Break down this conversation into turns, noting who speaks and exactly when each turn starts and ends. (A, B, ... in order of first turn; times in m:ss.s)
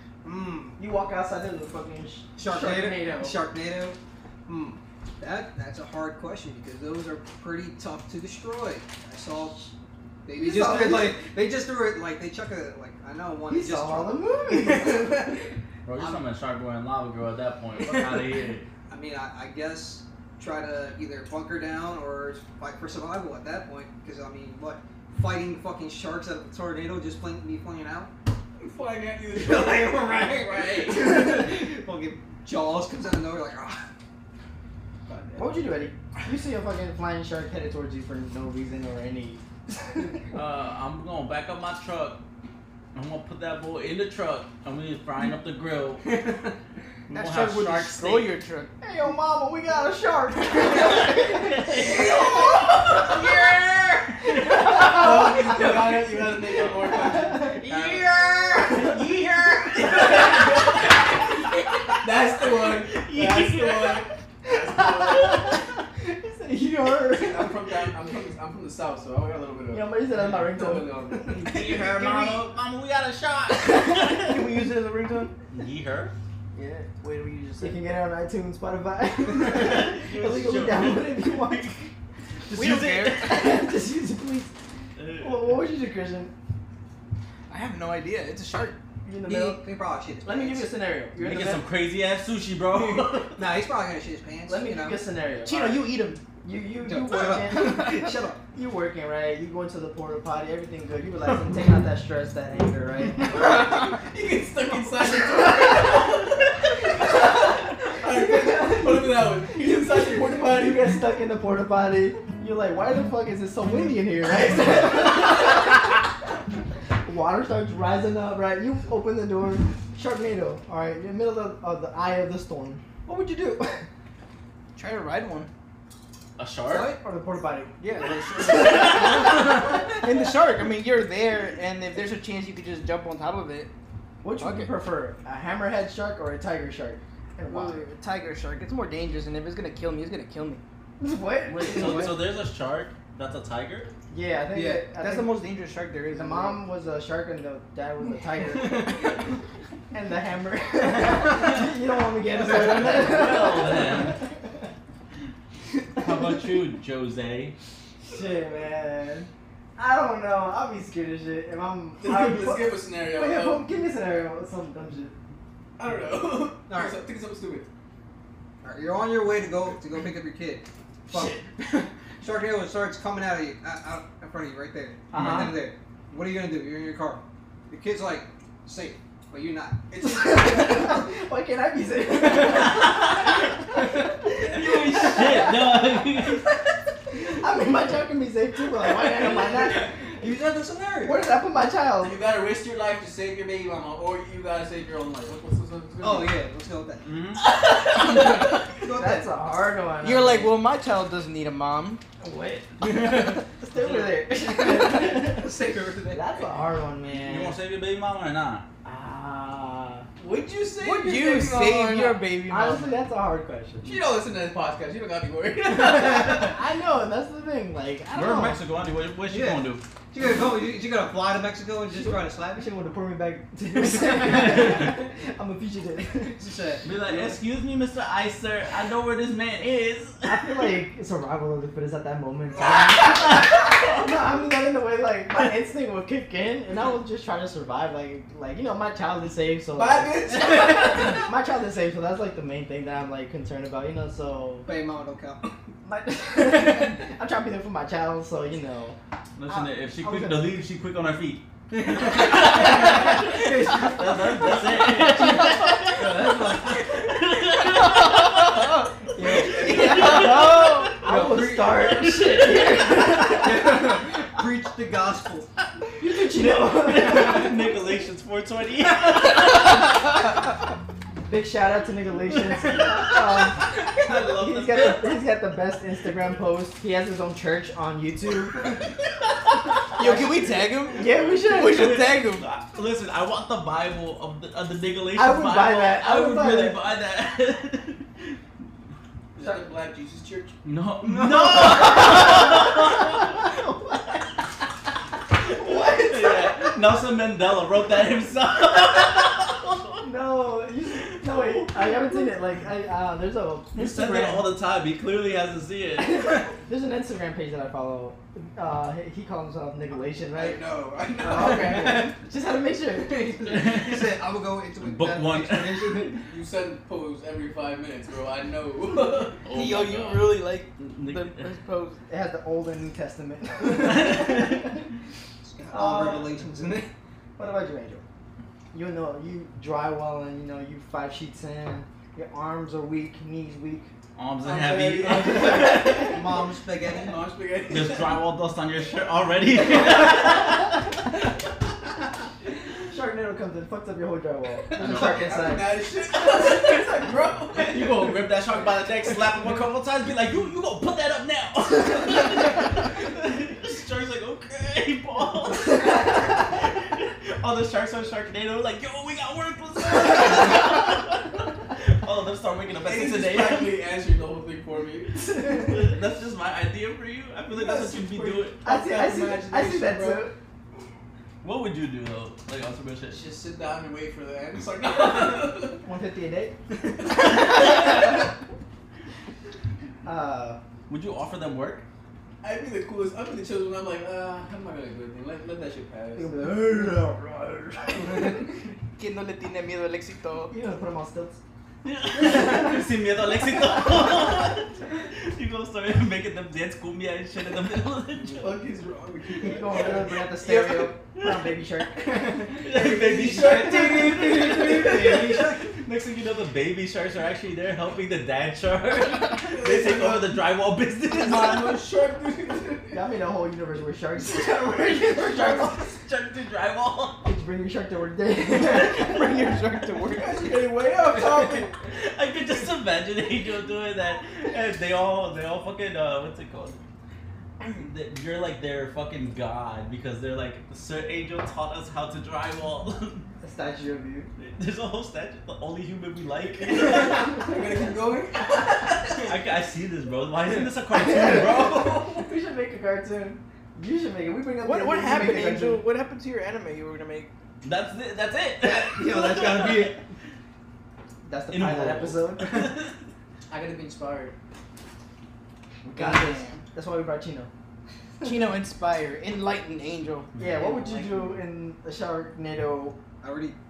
0:00.2-0:00.8 A
0:00.8-0:03.3 B
0:02.4-0:09.7 A
0:10.2-0:15.4 A
0:10.3-0:11.2 B
0:13.5-0:15.4 B
0:15.8-0:18.7 C
0:16.0-0:16.2 A
0:18.9-0:28.1 A
0:28.6-0:31.2 D
0:29.3-0:33.9 A
0:35.1-0:35.4 D
0:35.4-0:40.2 B
0:40.3-0:42.2 C
0:42.9-0:46.2 C
0:47.1-0:48.4 C
0:47.1-0:48.7 E
0:48.8-0:52.4 B
0:50.8-0:54.8 C
0:54.6-0:55.7 B
0:54.8-0:55.4 E
0:54.8-0:57.6 D
0:56.8-0:57.6 B
0:57.6-1:04.1 C
0:57.6-0:58.2 A
0:59.8-1:01.3 D
1:02.0-1:05.4 D
1:04.5-1:07.7 B
1:05.2-1:05.6 C
1:07.1-1:11.5 D
1:09.7-1:11.1 B
1:11.4-1:14.5 C
1:11.5-1:12.5 E
1:13.9-1:15.3 E
1:15.5-1:16.1 C
1:16.5-1:17.8 E
1:17.6-1:21.9 B
1:19.4-1:21.7 C
1:22.5-1:23.5 C
1:22.5-1:23.4 E
1:23.2-1:24.5 B
1:25.0-1:25.6 C
1:25.2-1:26.3 B
1:27.5-1:28.8 E
1:29.0-1:29.6 B
1:29.2-1:30.7 A
1:30.2-1:31.6 B
1:31.2-1:33.5 C
1:33.4-1:35.0 A
1:34.5-1:35.8 B
1:35.4-1:36.2 E
1:36.4-1:43.8 B
1:36.8-1:38.4 A
1:43.2-1:51.0 D
1:48.0-1:56.0 B
1:57.0-2:03.9 B
2:04.8-2:05.5 E
2:06.4-2:07.0 C
2:06.7-2:07.0 A
2:07.0-2:09.9 B
2:07.8-2:13.7 E
2:14.2-2:17.9 B
2:14.4-2:14.7 E
2:17.5-2:20.6 E
2:21.0-2:22.2 B
2:21.5-2:23.9 C
2:24.1-2:25.4 B
2:24.5-2:24.8 A
2:25.0-2:26.6 E
2:26.1-2:29.1 B
2:29.9-2:34.6 B
2:32.4-2:34.2 C
2:36.0-2:37.6 C
2:38.0-2:45.2 B
2:42.0-2:43.7 D
2:45.8-2:47.7 D
2:46.7-2:47.0 A
2:48.6-2:59.9 A
2:51.1-2:51.4 B
2:55.1-2:55.6 B
2:55.1-2:55.6 C
2:59.9-3:00.2 D
3:00.0-3:06.4 B
3:02.4-3:03.4 C
3:04.4-3:06.5 C
3:04.4-3:04.8 D
3:07.1-3:10.0 B
3:09.6-3:11.3 A
3:11.0-3:12.2 B
3:12.0-3:16.4 D
3:16.0-3:17.1 A
3:17.0-3:17.4 C
3:17.9-3:18.3 E
3:18.1-3:19.3 A
3:18.8-3:20.6 B
3:20.0-3:22.0 E
3:22.3-3:25.5 B
3:22.9-3:23.4 E
3:24.7-3:26.4 A
3:26.1-3:27.6 B
3:27.1-3:28.7 C
3:28.8-3:30.1 B
3:30.2-3:31.7 D
3:30.8-3:33.0 E
3:30.8-3:34.1 B
3:33.8-3:36.6 D
3:35.8-3:38.6 B
3:38.1-3:39.8 C
3:39.3-3:42.7 A
3:42.0-3:46.4 B
3:46.3-3:47.3 A
3:46.8-3:50.6 C
3:50.2-4:04.7 B
3:53.3-3:53.9 C
3:59.7-4:01.2 D
4:04.6-4:05.5 A
4:05.8-4:09.0 B
4:09.4-4:21.3 C
4:09.5-4:10.6 B
4:11.9-4:12.4 A
4:12.0-4:16.7 B
4:16.1-4:16.4 A
4:18.0-4:18.7 E
4:19.2-4:24.0 B
4:19.2-4:20.0 A
4:19.6-4:20.9 E
4:21.0-4:22.1 A
4:22.1-4:22.8 C
4:23.2-4:25.5 A
4:26.0-4:27.7 B
4:26.3-4:30.1 C
4:31.3-4:38.8 B
4:32.3-4:35.2 C
4:40.0-4:40.2 C
4:40.0-4:42.0 B
4:40.0-4:42.5 E
4:41.1-4:48.4 C
4:45.1-4:46.8 B
4:49.4-4:50.6 D
4:50.6-4:53.6 C
4:51.1-4:54.2 B
4:55.4-4:56.9 B
4:55.5-5:00.1 C
5:00.0-5:04.5 B
5:01.0-5:02.4 C
5:03.7-5:06.5 C
5:06.0-5:10.6 B
5:10.3-5:12.0 A
5:10.5-5:12.1 D
5:11.2-5:13.9 B
5:13.4-5:16.1 A
5:13.5-5:14.2 C
5:14.8-5:16.1 C
5:16.1-5:19.5 D
5:19.4-5:21.5 C
5:19.5-5:22.0 E
5:22.1-5:24.8 B
5:23.7-5:24.7 C
5:25.4-5:26.9 A
5:25.7-5:26.4 B
5:27.4-5:28.0 B
5:28.7-5:33.9 B
5:34.2-5:36.1 C
5:34.4-5:36.2 D
5:35.5-5:37.3 A
5:36.8-5:38.2 D
5:37.7-5:41.0 C
5:42.9-5:45.8 B
5:44.8-5:48.2 D
5:44.8-5:45.3 C
5:46.4-5:46.8 C
5:47.6-6:03.8 C
6:02.8-6:05.3 D
6:05.4-6:08.6 C
6:07.5-6:10.3 D
6:08.6-6:10.4 B
6:11.4-6:13.2 C
6:13.1-6:15.8 D
6:15.8-6:16.6 B
6:17.2-6:17.7 D
6:17.3-6:18.0 B
6:20.0-6:20.6 B
6:20.9-6:21.8 C
6:22.4-6:26.4 D
6:26.2-6:28.4 B
6:29.0-6:30.5 E
6:30.5-6:31.4 B
6:31.8-6:38.6 C
6:38.3-6:40.1 D
6:39.4-6:45.6 B
6:40.4-6:40.9 E
6:41.2-6:41.5 C
6:42.6-6:51.8 C
6:42.7-6:45.3 D
6:49.4-6:50.4 D
6:51.1-6:53.0 D
6:52.9-6:55.9 B
6:54.2-6:57.3 C
6:57.2-6:59.5 B
6:58.5-7:00.5 E
7:00.1-7:01.7 D
7:01.2-7:06.8 C
7:07.6-7:13.3 C
7:13.4-7:14.3 B
7:14.4-7:17.5 C
7:16.6-7:19.3 D
7:18.5-7:22.3 C
7:20.9-7:25.8 B
7:24.6-7:27.3 E
7:27.6-7:30.0 C
7:28.6-7:30.0 A
7:31.2-7:32.8 B
7:31.5-7:32.9 C
7:33.5-7:34.4 D
7:35.9-7:36.6 E
7:35.9-7:37.5 B
7:38.2-7:40.3 E
7:40.3-7:40.8 C
7:40.4-7:43.0 B
7:43.2-7:43.6 A